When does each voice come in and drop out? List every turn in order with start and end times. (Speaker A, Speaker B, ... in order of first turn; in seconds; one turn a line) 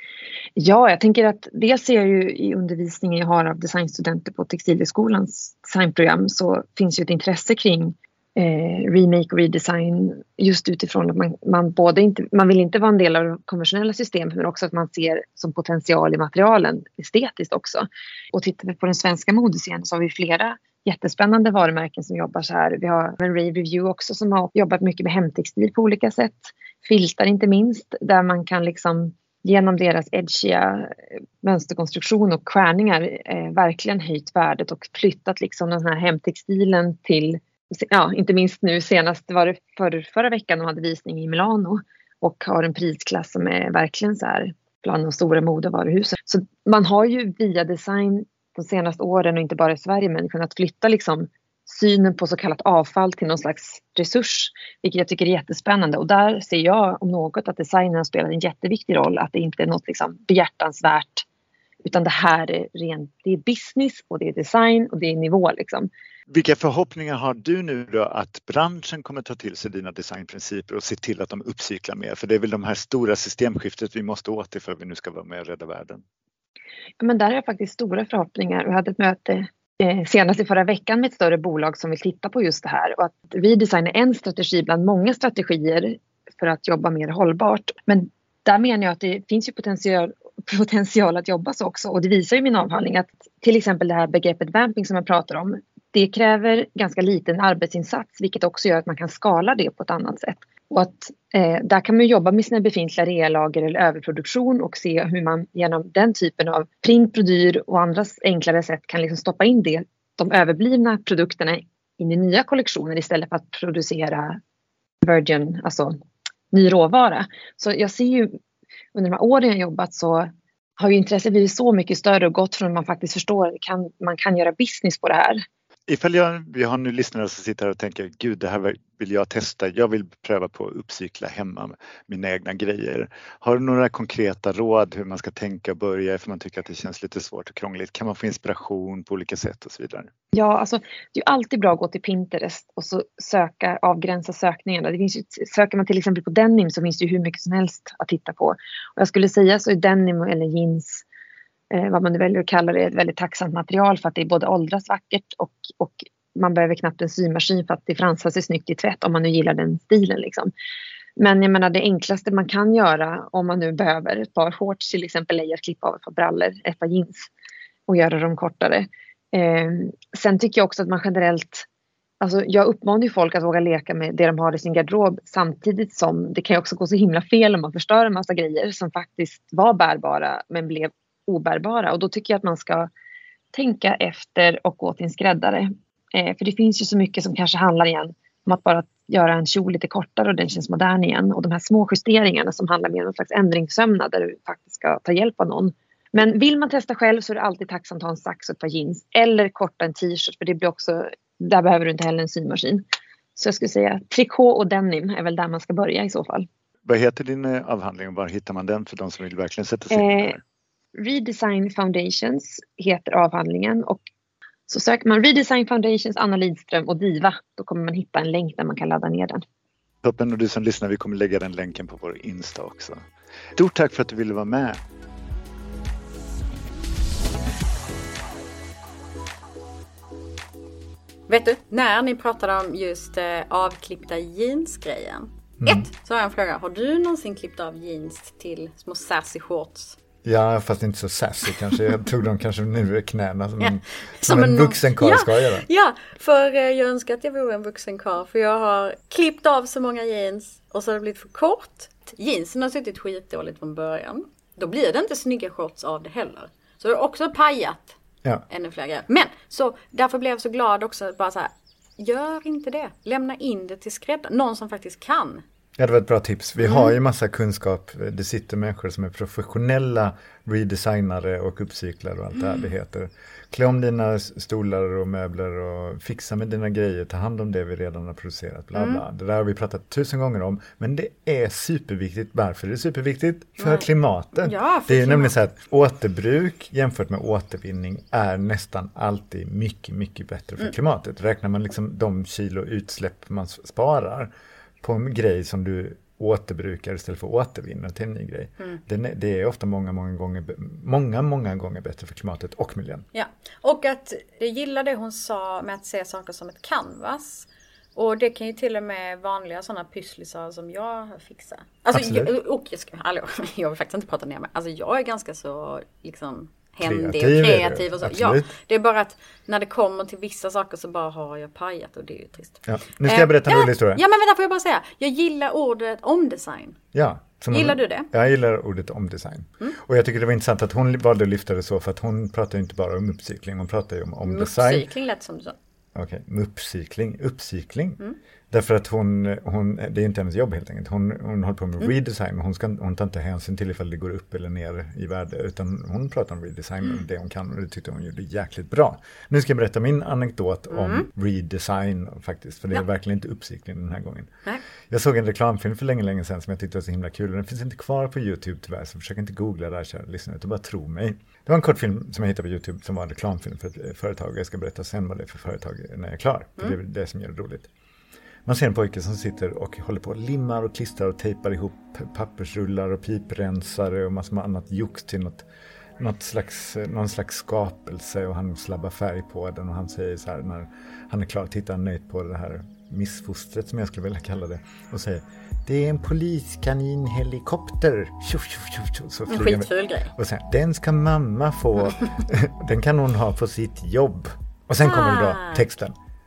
Speaker A: 0.6-61.2
Speaker A: 61.8-65.9
Speaker B: 66.3-76.0
Speaker A: 77.0-114.4
Speaker A: 115.0-116.0
Speaker A: 116.5-118.3
Speaker A: 118.9-125.4
Speaker B: 125.9-140.1
Speaker A: 140.3-151.0
Speaker A: 151.7-160.5
Speaker A: 161.2-167.3
Speaker A: 167.9-171.7
Speaker A: 172.2-182.9
Speaker A: 183.5-202.8
Speaker A: 203.3-206.5
Speaker B: 206.8-210.4
Speaker A: 209.9-210.3
Speaker A: 210.9-214.0
Speaker A: 214.7-219.4
Speaker B: 220.0-223.0
Speaker B: 223.6-224.8
Speaker C: 231.3-240.0
Speaker B: 235.6-235.8
Speaker B: 240.2-245.7
Speaker C: 243.6-258.0
Speaker C: 258.5-265.4
Speaker B: 265.8-303.1
Speaker C: 266.6-266.9
Speaker C: 278.7-279.0
Speaker C: 283.6-285.3
Speaker C: 303.1-326.8
Speaker B: 311.9-312.3
Speaker B: 316.8-318.5
Speaker B: 322.6-324.0
Speaker B: 326.9-334.9
Speaker C: 327.5-328.1
Speaker C: 334.2-335.5
Speaker B: 335.9-338.0
Speaker B: 338.5-354.3
Speaker C: 350.7-351.1
Speaker B: 354.9-367.7
Speaker B: 368.4-375.4
Speaker B: 376.0-395.9
Speaker C: 389.3-390.1
Speaker C: 394.8-395.6